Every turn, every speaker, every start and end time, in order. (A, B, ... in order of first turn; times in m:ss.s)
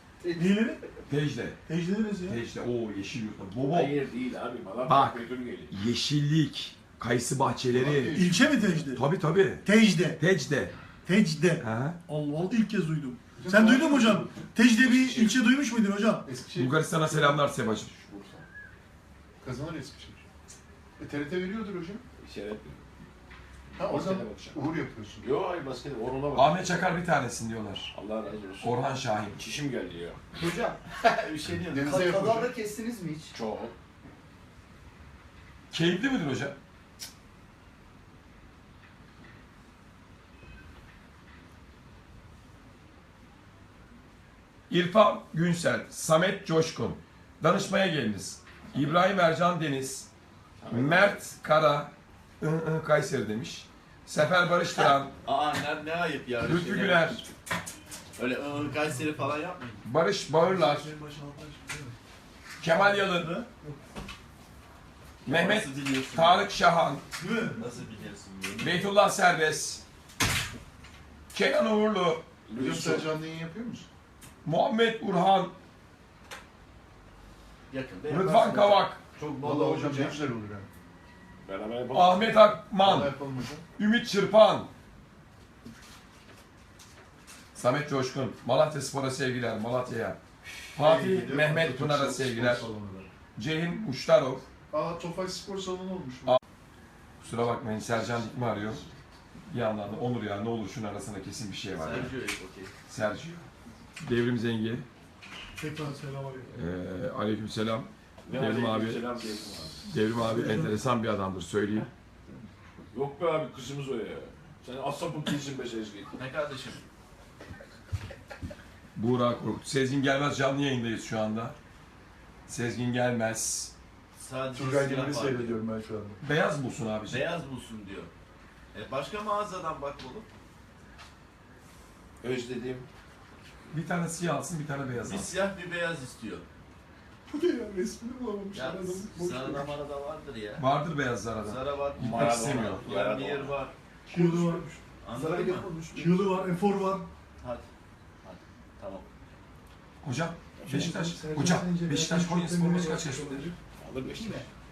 0:00.2-0:00.7 A
0:00.4-0:00.8 B
0:01.1-0:01.6 C
0:01.7-0:02.4 B
0:02.2-0:04.0 C
0:03.7-0:05.7 D
0:04.8-0:08.2 C
0:07.7-0:08.9 E
0:08.1-0:09.0 B
0:08.9-0:09.6 C
0:09.6-0:10.2 B
0:10.2-0:10.7 C
0:11.0-0:16.3 B
0:11.6-0:12.0 C
0:13.4-0:14.5 E
0:15.0-0:15.3 D
0:16.2-0:18.4 E
0:16.6-0:17.9 C
0:19.4-0:20.2 E
0:21.0-0:22.0 E
0:22.2-0:22.8 D
0:23.7-0:24.6 D
0:23.8-0:25.3 E
0:25.2-0:26.8 D
0:26.3-0:27.9 C
0:27.9-0:28.7 D
0:28.6-0:29.4 C
0:29.3-0:30.2 D
0:30.4-0:30.8 A
0:30.9-0:32.0 F
0:31.7-0:32.5 E
0:31.8-0:33.3 A
0:33.3-0:33.7 D
0:35.7-0:36.6 C
0:44.7-0:50.1 C
0:50.6-0:51.1 D
0:50.7-0:55.1 C
0:55.2-0:57.0 F
0:56.4-0:57.2 C
0:58.2-0:59.8 F
0:59.8-1:00.9 C
1:00.4-1:01.9 B
1:02.6-1:03.3 C
1:02.6-1:03.7 B
1:05.2-1:06.5 F
1:05.2-1:07.0 C
1:07.2-1:07.6 B
1:07.6-1:08.9 F
1:08.6-1:09.8 C
1:11.3-1:12.3 C
1:12.5-1:13.1 D
1:12.5-1:13.9 E
1:14.4-1:15.5 C
1:17.7-1:20.2 F
1:18.1-1:19.0 C
1:19.4-1:20.7 E
1:21.4-1:22.4 D
1:21.9-1:23.1 C
1:22.8-1:23.6 E
1:23.8-1:24.7 C
1:27.5-1:30.2 C
1:30.7-1:33.1 E
1:30.7-1:32.7 C
1:33.4-1:34.4 C
1:34.7-1:36.4 E
1:37.2-1:38.8 C
1:38.0-1:38.8 D
1:39.5-1:42.1 C
1:41.8-1:42.7 F
1:42.9-1:43.4 C
1:44.0-1:44.8 C
1:45.6-1:46.5 B
1:46.5-1:49.0 C
1:48.2-1:49.8 D
1:49.8-1:51.9 C
1:50.2-1:50.7 B
1:52.9-1:56.2 D
1:56.2-1:56.8 F
1:59.0-2:01.6 C
2:02.5-2:03.7 C
2:04.2-2:05.6 F
2:04.5-2:06.2 E
2:06.2-2:07.2 C
2:07.1-2:08.1 F
2:08.7-2:10.3 F
2:12.2-2:12.9 D
2:13.7-2:15.3 C
2:15.0-2:16.4 F
2:17.3-2:19.7 E
2:18.5-2:20.6 F
2:20.6-2:22.8 C
2:21.4-2:23.7 F
2:22.0-2:23.6 D
2:24.1-2:24.6 B
2:24.1-2:24.8 E
2:25.0-2:25.7 F
2:25.1-2:26.1 A
2:25.4-2:26.2 E
2:25.9-2:27.1 B
2:27.4-2:27.6 F
2:28.2-2:29.1 F
2:30.0-2:33.5 C
2:30.6-2:33.6 B
2:33.8-2:34.4 D
2:34.1-2:34.4 A